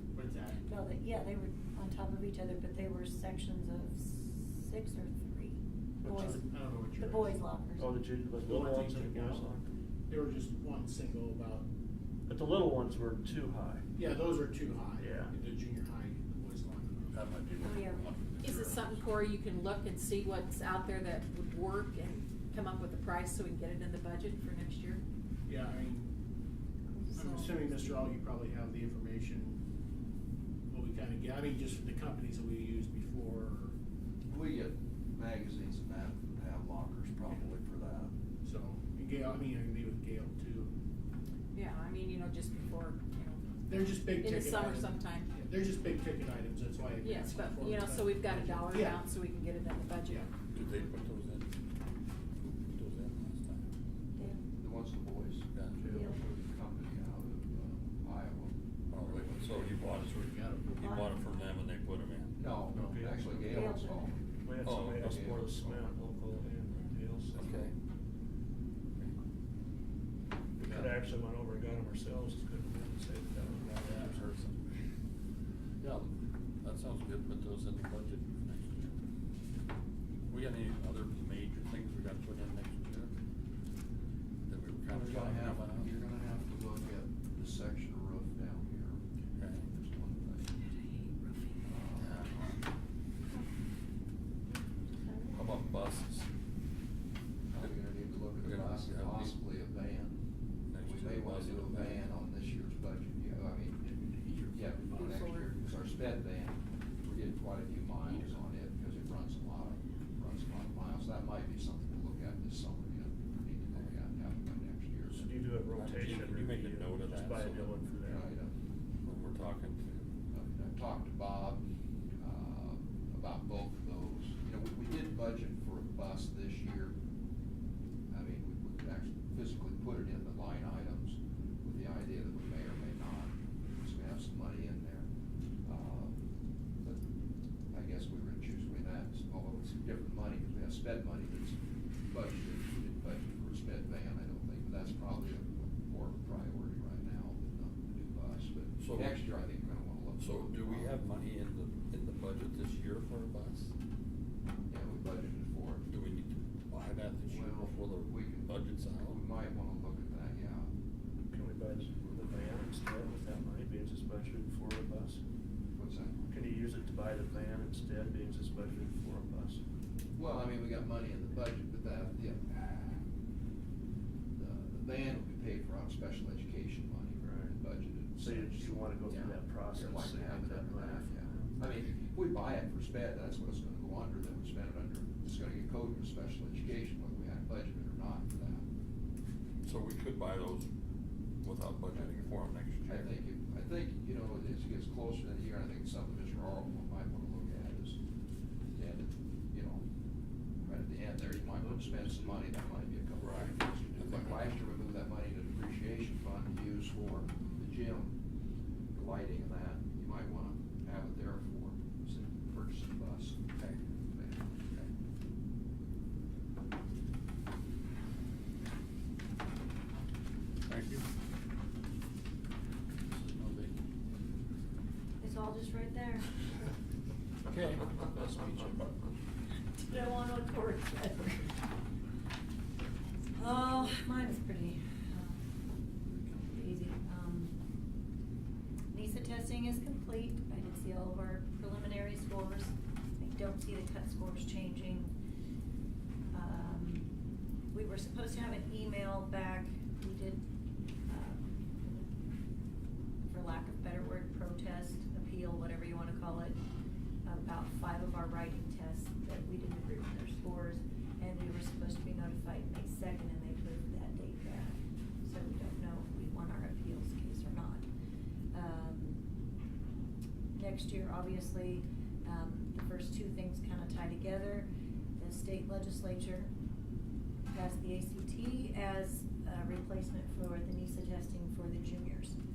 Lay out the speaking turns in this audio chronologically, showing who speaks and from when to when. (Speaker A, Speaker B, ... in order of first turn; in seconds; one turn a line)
Speaker A: 0.1-0.6
Speaker B: 0.6-6.4
Speaker C: 6.0-6.4
Speaker A: 6.2-7.4
Speaker B: 7.0-7.9
Speaker C: 7.8-9.7
Speaker A: 8.4-9.5
Speaker A: 10.1-11.7
Speaker C: 12.3-13.8
Speaker A: 13.9-17.2
Speaker C: 15.0-15.3
Speaker D: 17.1-19.0
Speaker B: 17.6-18.1
Speaker E: 18.4-25.0
Speaker A: 25.5-26.1
Speaker E: 27.1-27.6
Speaker A: 27.1-29.6
Speaker A: 30.7-33.7
Speaker F: 34.3-38.1
Speaker A: 38.4-40.7
Speaker E: 41.5-45.3
Speaker A: 43.7-49.0
Speaker E: 47.0-50.2
Speaker D: 50.5-51.5
Speaker D: 52.4-53.6
Speaker B: 54.1-54.4
Speaker F: 54.6-59.7
Speaker D: 55.5-55.9
Speaker C: 55.8-56.1
Speaker B: 55.8-56.2
Speaker D: 58.9-62.4
Speaker A: 60.2-60.6
Speaker B: 60.8-61.3
Speaker F: 62.4-64.3
Speaker C: 62.7-63.7
Speaker B: 63.5-64.0
Speaker C: 64.4-67.7
Speaker D: 64.6-65.8
Speaker F: 65.0-65.5
Speaker D: 67.3-67.7
Speaker C: 70.6-74.3
Speaker D: 70.6-70.9
Speaker D: 73.7-74.6
Speaker D: 75.8-76.1
Speaker D: 76.6-78.9
Speaker D: 80.3-83.1
Speaker D: 84.5-85.9
Speaker F: 84.9-89.0
Speaker D: 89.4-89.7
Speaker F: 89.7-90.7
Speaker F: 91.6-92.2
Speaker D: 92.0-92.5
Speaker B: 94.9-95.5
Speaker D: 95.3-96.3
Speaker F: 97.5-100.2
Speaker D: 98.4-99.4
Speaker D: 100.7-102.1
Speaker F: 100.8-115.2
Speaker E: 104.9-105.6
Speaker C: 115.1-118.3
Speaker D: 115.7-117.8
Speaker F: 118.0-118.5
Speaker D: 119.0-120.1
Speaker F: 120.3-121.6
Speaker F: 122.2-127.0
Speaker F: 128.1-135.1
Speaker F: 135.6-136.1
Speaker F: 137.7-141.6
Speaker F: 142.1-151.0
Speaker D: 148.8-149.2
Speaker D: 150.2-153.7
Speaker F: 154.7-155.8
Speaker D: 155.9-159.2
Speaker F: 157.2-160.7
Speaker C: 161.3-165.2
Speaker F: 165.8-166.2
Speaker C: 166.3-169.6
Speaker F: 170.2-173.0
Speaker F: 174.3-188.6
Speaker C: 177.2-177.6
Speaker C: 178.2-181.5
Speaker D: 189.6-190.7
Speaker D: 191.4-193.1
Speaker F: 191.9-192.3
Speaker F: 192.9-198.0
Speaker F: 198.7-199.8
Speaker F: 200.6-208.1
Speaker C: 201.4-202.5
Speaker D: 203.2-204.5
Speaker F: 208.9-214.6
Speaker D: 220.7-221.0
Speaker D: 223.1-223.7
Speaker B: 225.2-226.3
Speaker D: 227.5-228.7
Speaker C: 228.2-228.7
Speaker B: 229.9-231.5
Speaker B: 233.3-235.4
Speaker B: 236.3-237.6
Speaker B: 238.9-245.1
Speaker B: 246.3-247.1
Speaker B: 247.7-250.4
Speaker B: 251.1-252.1
Speaker B: 253.3-256.6
Speaker B: 257.2-267.8
Speaker B: 268.5-269.2
Speaker B: 270.5-276.5
Speaker B: 277.5-282.4